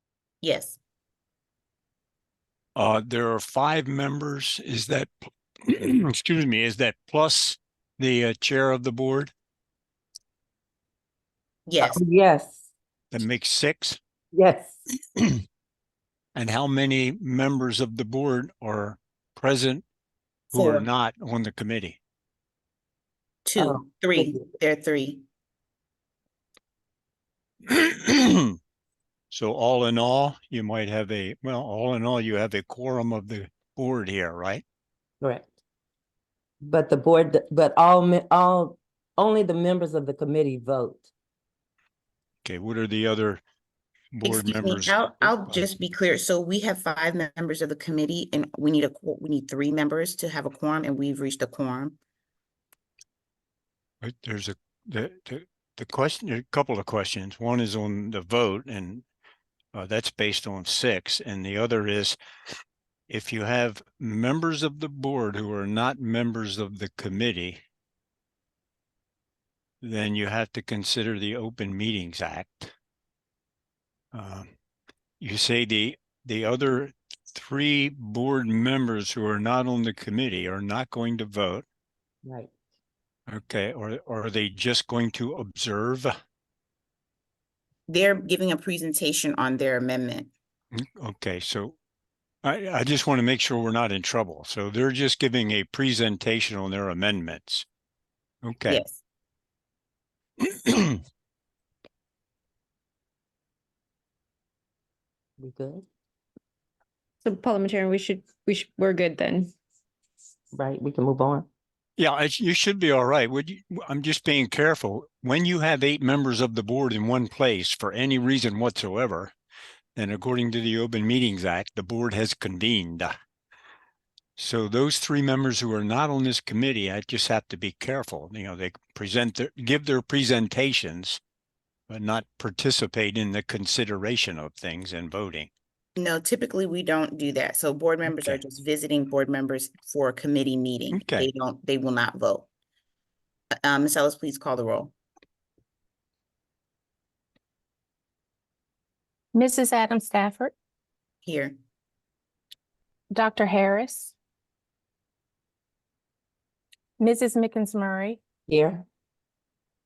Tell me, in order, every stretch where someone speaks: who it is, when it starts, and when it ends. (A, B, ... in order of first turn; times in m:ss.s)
0:00.4-0:00.8 A
0:02.8-0:09.3 B
0:11.6-0:12.0 A
0:11.8-0:12.6 C
0:13.1-0:14.0 B
0:14.3-0:14.8 C
0:16.3-0:19.8 B
0:20.5-0:22.0 B
0:20.5-0:20.8 A
0:23.4-0:25.2 A
0:23.6-0:24.4 C
0:27.7-0:28.6 B
0:29.3-0:34.6 B
0:35.2-0:35.5 C
0:36.6-0:41.1 C
0:42.4-0:43.4 B
0:44.1-0:45.6 B
0:44.2-0:52.0 A
0:54.0-0:59.0 B
0:59.7-1:02.2 B
1:03.1-1:07.6 B
1:09.8-1:12.7 B
1:14.1-1:14.5 B
1:15.2-1:21.6 B
1:22.2-1:22.5 C
1:23.3-1:26.1 B
1:27.9-1:30.3 A
1:30.7-1:31.8 B
1:32.4-1:37.6 B
1:38.4-1:38.8 B
1:38.7-1:39.0 A
1:40.4-1:41.0 B
1:45.4-1:45.8 C
1:47.2-1:49.5 D
1:50.5-1:51.5 C
1:52.0-1:59.3 B
2:00.0-2:03.1 B
2:04.4-2:11.2 B
2:11.9-2:15.5 B
2:16.0-2:22.5 A
2:18.1-2:18.4 B
2:20.9-2:21.3 B
2:23.6-2:24.9 A
2:29.3-2:30.5 E
2:31.2-2:31.6 A
2:33.1-2:34.1 E
2:37.0-2:38.2 E
2:38.5-2:38.8 C